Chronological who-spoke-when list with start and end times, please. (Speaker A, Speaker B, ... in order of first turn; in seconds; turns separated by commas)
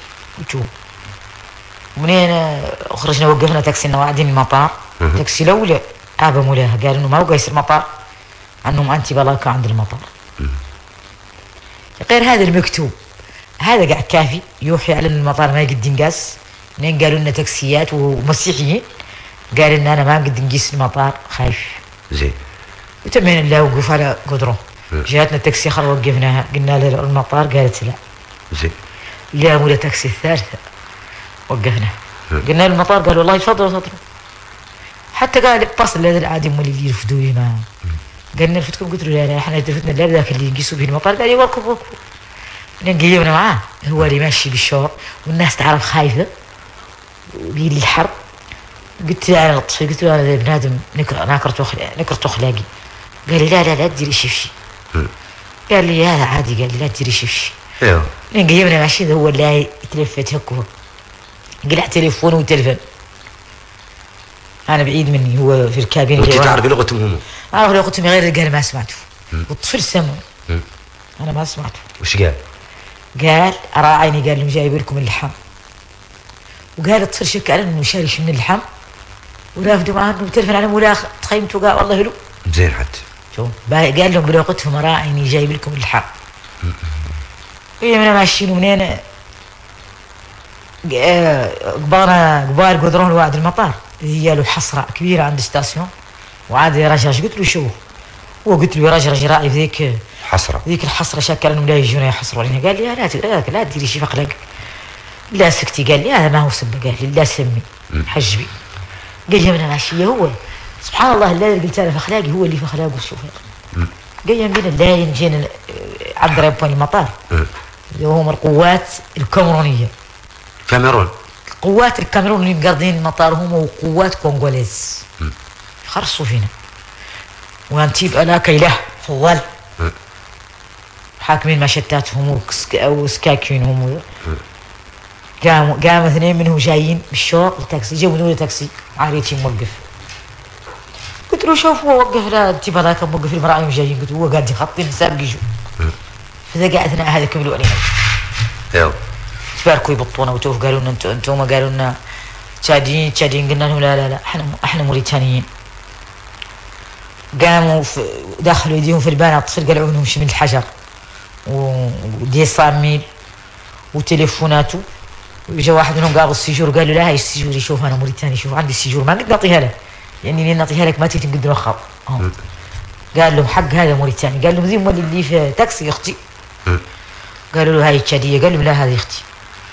Speaker A: 0.4-0.7, Speaker A: 2.0-7.9, Speaker A: 8.6-10.1, Speaker A: 12.0-12.9, Speaker A: 13.6-18.9, Speaker A: 19.5-21.8, Speaker B: 22.1-22.4, Speaker A: 23.0-28.0, Speaker B: 28.5-28.8, Speaker A: 29.3-30.6, Speaker A: 31.5-34.0, Speaker A: 35.1-37.7, Speaker A: 38.3-42.0, Speaker A: 42.8-46.3, Speaker A: 47.3-48.1, Speaker A: 49.0-52.7, Speaker A: 53.3-54.5, Speaker A: 55.7-57.5, Speaker B: 57.8-58.1, Speaker A: 58.3-60.7, Speaker A: 61.6-62.8, Speaker A: 64.7-66.6, Speaker B: 66.2-67.2, Speaker A: 67.5-70.2, Speaker A: 71.2-71.9, Speaker B: 72.0-72.4, Speaker A: 73.2-75.3, Speaker A: 76.8-78.6, Speaker A: 79.5-82.2, Speaker B: 82.5-83.0, Speaker A: 83.3-86.1, Speaker A: 87.8-89.0, Speaker A: 90.8-95.9, Speaker A: 96.5-97.8, Speaker A: 98.5-100.0, Speaker B: 100.2-100.6, Speaker A: 100.7-104.4, Speaker A: 105.3-108.5, Speaker A: 109.3-113.5, Speaker A: 114.2-117.1, Speaker A: 117.9-119.9, Speaker B: 120.7-121.1, Speaker A: 121.6-125.0, Speaker A: 125.8-126.5, Speaker A: 127.7-129.4, Speaker A: 131.2-134.0, Speaker A: 135.4-139.8, Speaker A: 141.3-145.4, Speaker A: 146.5-147.9, Speaker B: 148.7-149.0, Speaker A: 149.5-152.0, Speaker A: 152.6-155.5, Speaker A: 157.3-160.7, Speaker A: 161.4-163.1, Speaker A: 163.9-164.8, Speaker A: 165.5-172.3, Speaker A: 173.1-176.2, Speaker A: 177.5-179.2